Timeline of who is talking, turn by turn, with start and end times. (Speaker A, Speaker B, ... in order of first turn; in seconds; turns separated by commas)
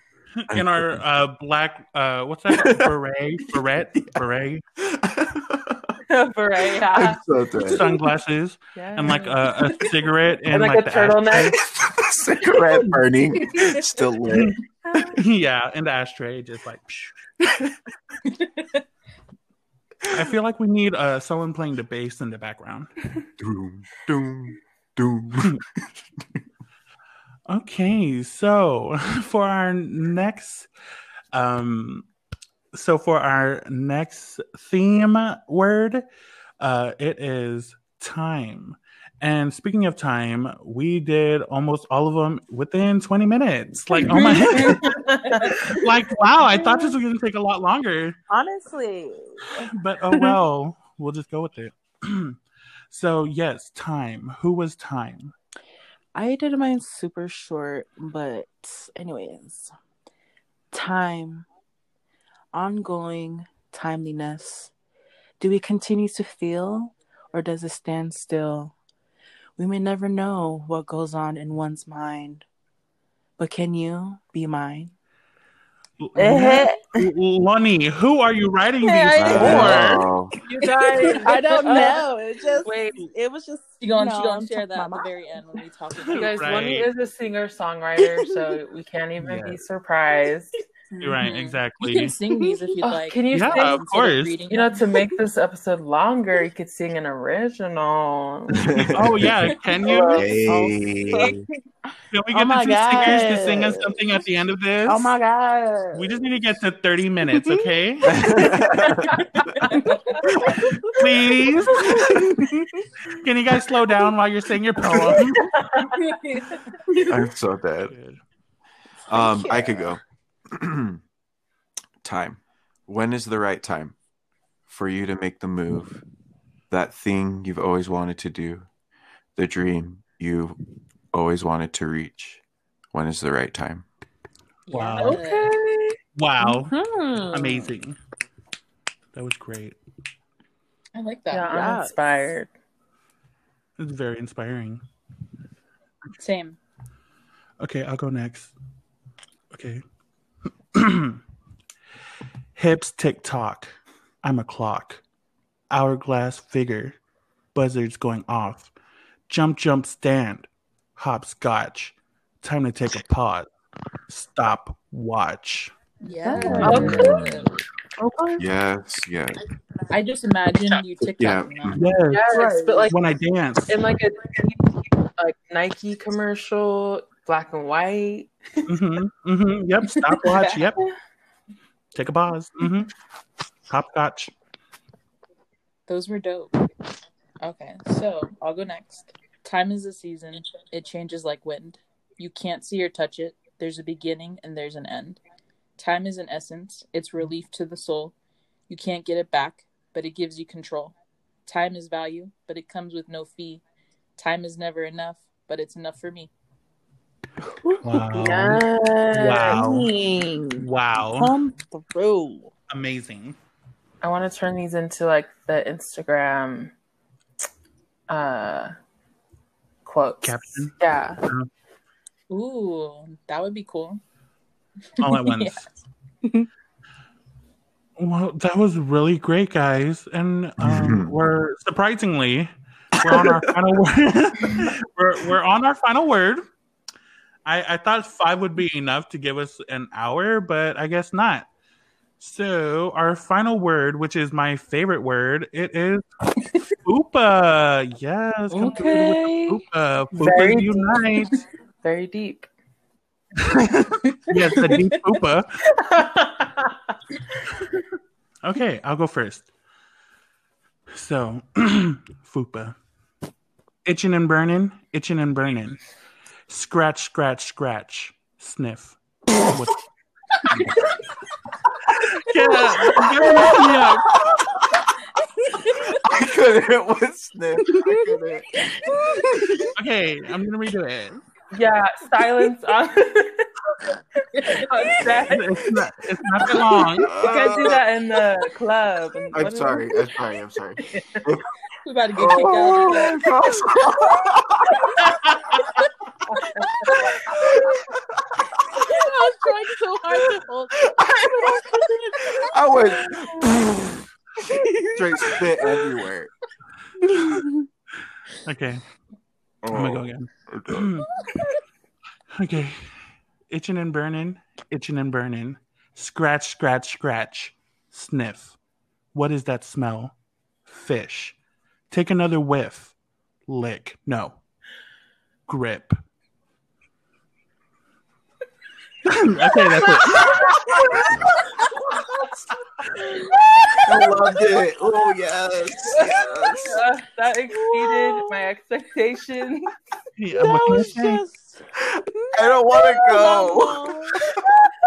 Speaker A: 0.4-4.6, Speaker B: 0.5-0.8, Speaker B: 2.5-2.9, Speaker B: 3.5-4.2, Speaker B: 4.8-6.0, Speaker C: 6.1-7.2, Speaker B: 6.8-7.9, Speaker A: 7.7-11.6, Speaker C: 8.8-9.9, Speaker C: 10.5-11.6, Speaker B: 11.6-15.1, Speaker A: 14.3-14.6, Speaker A: 15.1-17.3, Speaker D: 18.3-18.8, Speaker A: 20.1-22.9, Speaker B: 23.4-25.9, Speaker A: 27.5-30.7, Speaker A: 31.3-32.1, Speaker A: 32.7-36.0, Speaker A: 36.6-48.2, Speaker C: 43.9-45.9, Speaker E: 48.3-49.7, Speaker A: 49.6-52.4, Speaker A: 52.9-55.3, Speaker E: 56.1-59.7, Speaker E: 60.7-61.5, Speaker E: 62.5-64.7, Speaker E: 65.4-68.8, Speaker E: 69.6-72.5, Speaker E: 73.4-74.9, Speaker A: 76.0-80.0, Speaker C: 76.2-76.9, Speaker C: 78.8-82.0, Speaker B: 79.2-80.4, Speaker D: 80.5-82.0, Speaker E: 81.2-85.6, Speaker C: 82.6-83.0, Speaker D: 83.8-86.3, Speaker A: 86.1-86.9, Speaker C: 86.1-90.5, Speaker E: 88.0-88.6, Speaker A: 89.2-89.6, Speaker A: 91.0-92.2, Speaker D: 91.0-94.8, Speaker E: 92.3-92.5, Speaker C: 93.0-93.9, Speaker A: 93.3-94.4, Speaker C: 94.5-98.8, Speaker B: 98.5-99.5, Speaker A: 98.9-100.3, Speaker C: 99.8-100.4, Speaker B: 100.1-101.5, Speaker E: 100.5-101.5, Speaker A: 102.1-105.1, Speaker E: 102.3-104.1, Speaker E: 104.8-106.2, Speaker A: 105.9-108.6, Speaker E: 107.3-107.7, Speaker B: 108.1-109.6, Speaker D: 109.6-110.2, Speaker E: 110.1-110.9, Speaker B: 110.3-110.6, Speaker A: 110.9-115.5, Speaker B: 111.7-112.2, Speaker C: 114.9-116.1, Speaker D: 115.9-116.6, Speaker B: 117.1-117.9, Speaker A: 117.9-118.2, Speaker B: 119.1-121.0, Speaker E: 119.1-120.0, Speaker B: 122.0-124.0, Speaker B: 124.7-126.0, Speaker B: 126.7-128.7, Speaker B: 129.4-130.6, Speaker B: 131.1-132.4, Speaker B: 132.9-133.8, Speaker D: 134.7-135.5, Speaker A: 134.7-135.2, Speaker C: 135.0-137.7, Speaker A: 136.2-138.0, Speaker A: 139.1-139.8, Speaker D: 140.9-141.6, Speaker C: 141.3-142.5, Speaker E: 141.5-142.0, Speaker A: 143.8-144.8, Speaker D: 146.2-146.6, Speaker A: 147.6-148.5, Speaker A: 149.5-149.8, Speaker A: 150.7-151.2, Speaker A: 152.6-155.0, Speaker A: 155.7-157.0, Speaker A: 157.5-158.7, Speaker A: 159.3-163.5, Speaker A: 164.1-165.8, Speaker D: 166.0-167.5, Speaker C: 166.2-167.4, Speaker E: 166.3-167.0, Speaker A: 166.5-167.0, Speaker B: 166.6-167.5, Speaker C: 168.1-168.4, Speaker E: 168.1-168.4, Speaker B: 168.4-169.4, Speaker D: 169.9-171.9, Speaker B: 171.2-171.9, Speaker A: 171.8-173.8, Speaker C: 172.1-173.0, Speaker E: 172.3-172.9, Speaker C: 173.7-178.6, Speaker A: 178.7-180.9, Speaker D: 180.2-180.6, Speaker A: 181.9-182.9, Speaker A: 183.7-184.3, Speaker D: 185.9-186.5, Speaker D: 187.4-195.2, Speaker D: 195.8-198.2, Speaker D: 198.7-203.6, Speaker D: 204.2-206.3, Speaker E: 207.4-207.8, Speaker A: 207.8-209.9, Speaker C: 208.1-209.7, Speaker E: 209.5-212.5, Speaker A: 210.6-211.4, Speaker A: 212.7-213.4, Speaker C: 214.0-216.7, Speaker C: 218.1-218.7, Speaker C: 219.8-221.2, Speaker A: 220.2-221.5, Speaker D: 222.3-224.0, Speaker D: 225.0-225.6, Speaker A: 225.0-225.7, Speaker A: 228.0-236.4, Speaker B: 230.6-231.1, Speaker A: 237.4-241.5, Speaker A: 242.2-246.0, Speaker A: 246.7-251.3, Speaker C: 248.5-251.1, Speaker C: 251.8-252.5, Speaker A: 253.4-255.6, Speaker C: 255.7-256.8, Speaker A: 258.4-259.5, Speaker A: 260.9-262.8, Speaker A: 263.9-265.8, Speaker A: 266.5-269.9, Speaker A: 270.5-270.8, Speaker A: 271.9-274.2, Speaker B: 273.5-274.8, Speaker B: 275.7-279.7, Speaker E: 277.7-278.1, Speaker A: 279.8-281.2, Speaker C: 281.5-283.5, Speaker D: 284.3-284.7, Speaker C: 284.5-285.7, Speaker A: 285.3-287.2, Speaker C: 287.0-290.1, Speaker B: 287.0-287.9, Speaker B: 289.3-291.5, Speaker C: 290.8-291.2, Speaker D: 291.8-293.2, Speaker B: 292.2-295.1, Speaker A: 295.0-295.7, Speaker C: 296.3-296.6, Speaker B: 297.0-298.9, Speaker E: 298.8-303.4, Speaker B: 300.9-301.6, Speaker B: 302.4-304.1, Speaker E: 304.4-305.8, Speaker B: 304.9-306.3, Speaker E: 307.0-307.7, Speaker A: 307.1-307.5, Speaker A: 308.4-308.9, Speaker B: 309.6-310.9, Speaker A: 309.7-311.1, Speaker A: 312.3-318.6, Speaker A: 319.1-320.1, Speaker A: 320.7-321.4, Speaker A: 321.9-322.9, Speaker A: 323.5-324.4, Speaker A: 325.5-326.0, Speaker A: 329.1-330.4, Speaker C: 329.9-331.2, Speaker B: 330.1-331.5, Speaker C: 333.2-334.1, Speaker B: 333.9-336.9, Speaker C: 335.9-339.7, Speaker E: 337.5-338.3, Speaker A: 340.2-341.2, Speaker E: 340.4-344.2, Speaker B: 341.9-344.5